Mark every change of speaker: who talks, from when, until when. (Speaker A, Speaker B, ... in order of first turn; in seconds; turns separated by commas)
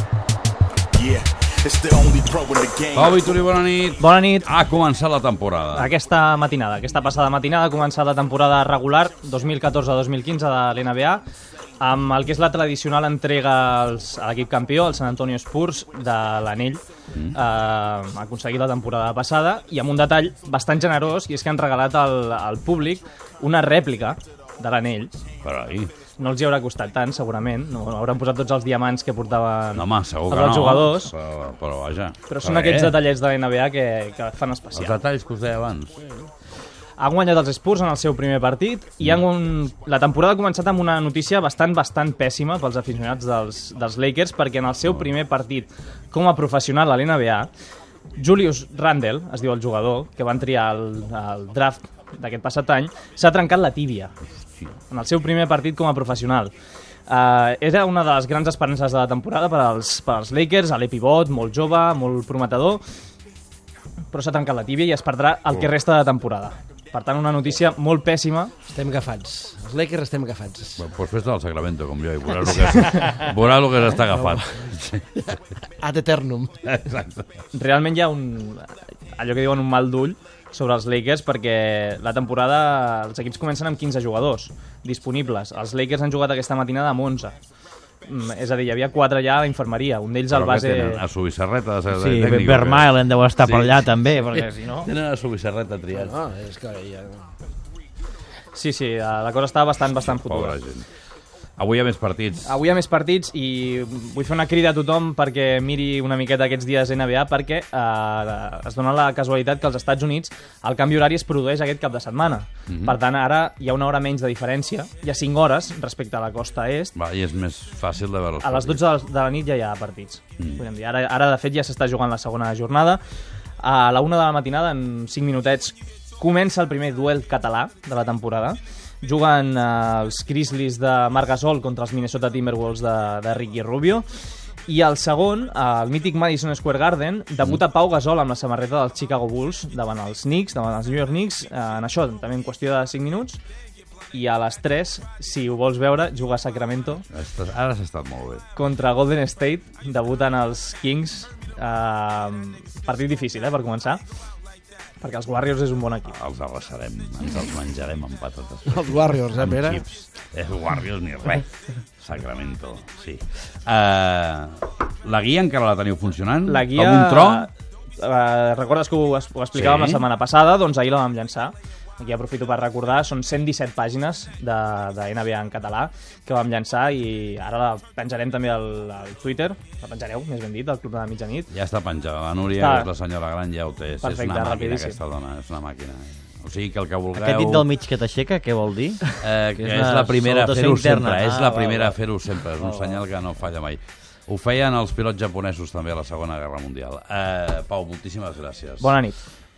Speaker A: 0.9-3.2, Speaker B: 2.9-5.9, Speaker C: 4.0-4.5, Speaker C: 5.7-11.2, Speaker C: 11.8-16.8, Speaker C: 17.3-25.1, Speaker B: 25.4-25.9, Speaker C: 26.2-31.1, Speaker B: 29.7-33.0, Speaker C: 32.3-35.0, Speaker B: 34.7-36.0, Speaker C: 37.0-47.5, Speaker C: 48.2-54.1, Speaker C: 54.9-56.5, Speaker C: 57.1-62.8, Speaker C: 64.1-68.5, Speaker D: 68.7-70.8, Speaker B: 70.8-75.3, Speaker D: 74.0-74.7, Speaker D: 75.8-76.6, Speaker B: 76.6-77.3, Speaker C: 77.5-87.3, Speaker C: 88.0-91.0, Speaker B: 90.3-96.2, Speaker E: 91.9-94.9, Speaker D: 95.9-97.3, Speaker C: 98.5-100.6, Speaker B: 99.9-100.8, Speaker B: 101.6-102.6, Speaker C: 102.4-116.9, Speaker B: 112.7-112.9, Speaker B: 116.9-118.8, Speaker C: 118.4-123.0, Speaker C: 123.6-134.0, Speaker C: 134.7-143.4, Speaker C: 144.1-147.1, Speaker B: 147.1-148.4, Speaker C: 148.5-154.0, Speaker C: 155.0-156.2, Speaker B: 156.1-161.5, Speaker D: 158.7-159.8, Speaker B: 162.0-167.5, Speaker C: 166.4-181.5, Speaker B: 169.5-170.0, Speaker B: 181.5-187.7, Speaker C: 182.5-182.9, Speaker C: 184.0-185.0, Speaker E: 187.2-192.0, Speaker B: 189.2-199.0, Speaker E: 192.5-193.0, Speaker C: 198.8-199.2